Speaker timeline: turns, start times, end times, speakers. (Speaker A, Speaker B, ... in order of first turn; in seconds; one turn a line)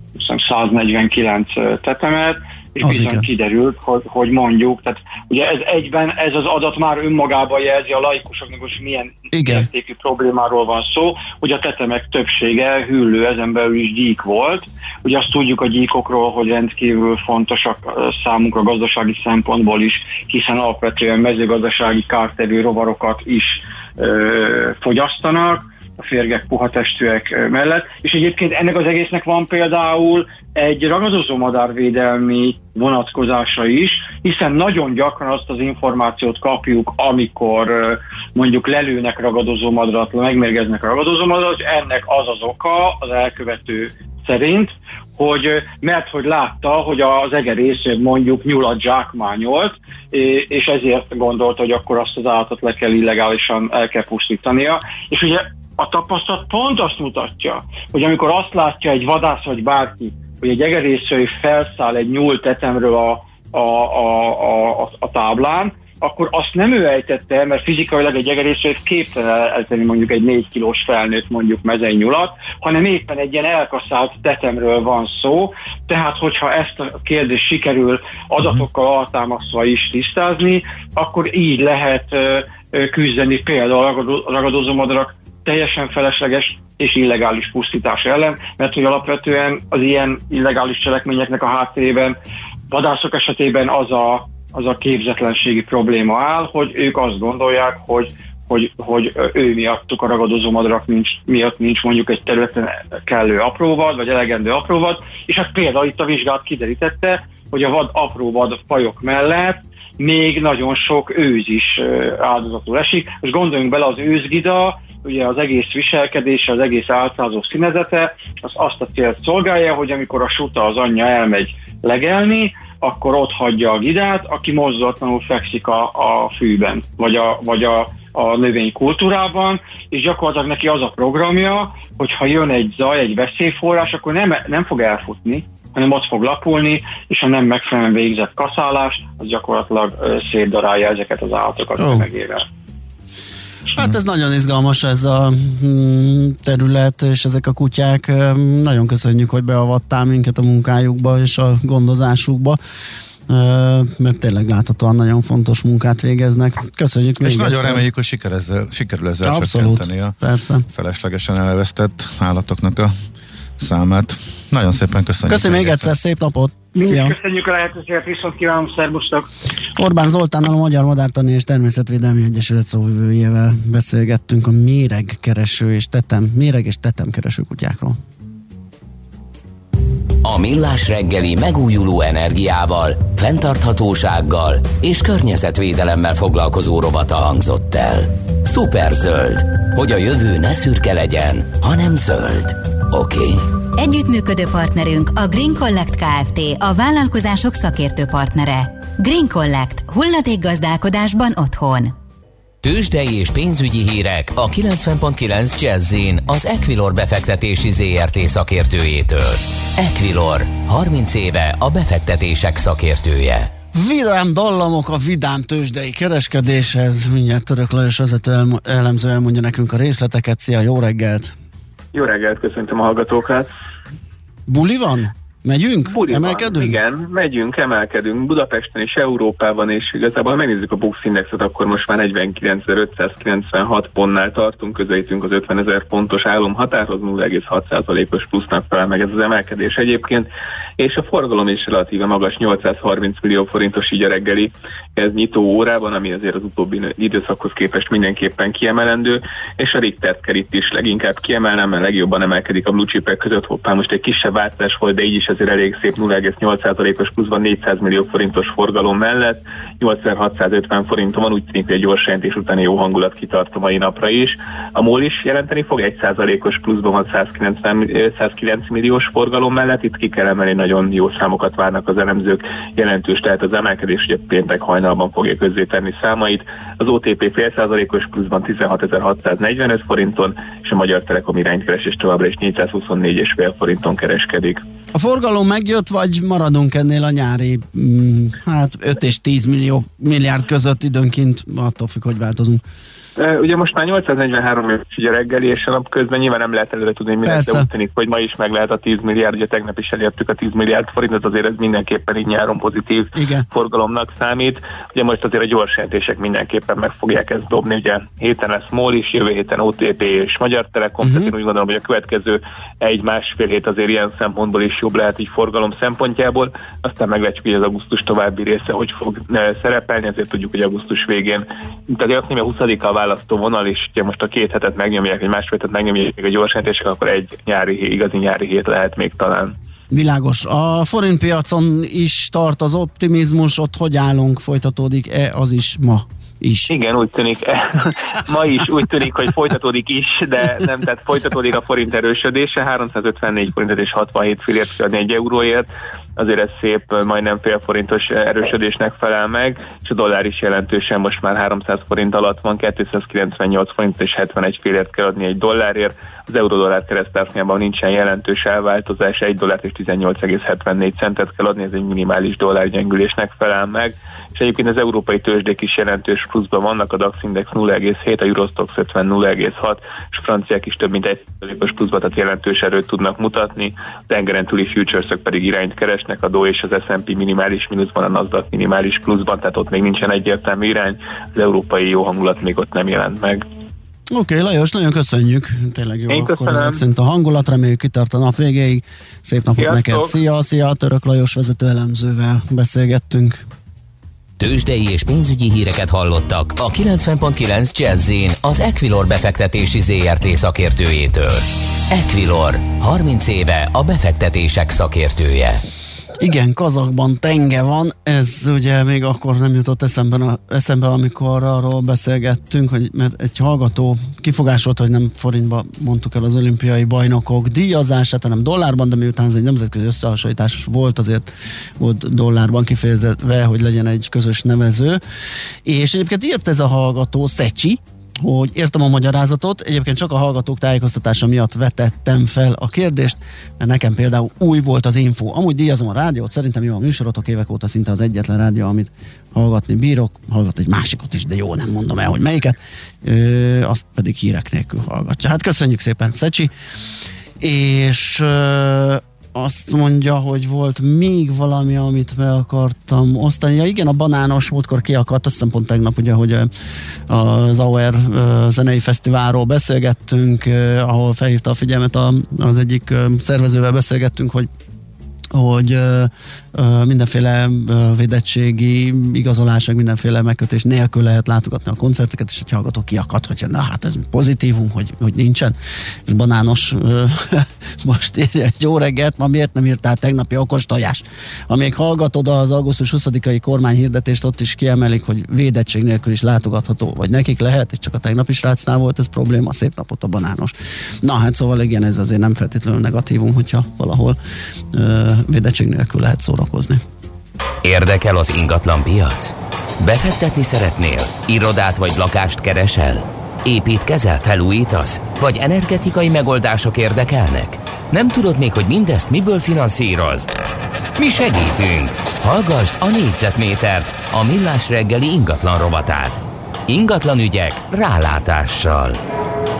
Speaker A: 0.1-92.2
Speaker B: 2.8-3.2
Speaker B: 9.3-9.7
Speaker A: 92.7-142.4
Speaker B: 141.8-142.1
Speaker B: 143.7-152.6
Speaker B: 153.3-157.8
Speaker C: 157.2-160.2
Speaker B: 159.2-160.7
Speaker C: 160.7-162.9
Speaker C: 163.6-165.9
Speaker B: 165.2-167.2
Speaker A: 166.7-169.3
Speaker B: 169.8-178.0
Speaker D: 180.2-193.4
Speaker E: 193.8-201.9
Speaker D: 202.6-213.5
Speaker B: 213.7-221.3
Speaker F: 221.9-223.5
Speaker B: 224.5-226.8
Speaker F: 225.9-284.6
Speaker B: 284.9-292.6
Speaker F: 293.2-329.6
Speaker B: 297.2-297.7
Speaker B: 303.1-303.4
Speaker B: 311.0-311.3
Speaker B: 329.9-336.7
Speaker F: 336.7-383.5
Speaker B: 384.1-393.4
Speaker F: 386.1-386.8
Speaker F: 389.6-390.2
Speaker D: 394.4-405.6
Speaker B: 406.2-421.3
Speaker B: 421.8-425.0
Speaker B: 425.6-446.5
Speaker B: 447.4-456.5
Speaker B: 457.1-464.5
Speaker B: 465.3-475.6
Speaker B: 476.1-494.2
Speaker B: 494.7-496.8
Speaker D: 497.6-510.3
Speaker D: 511.0-519.0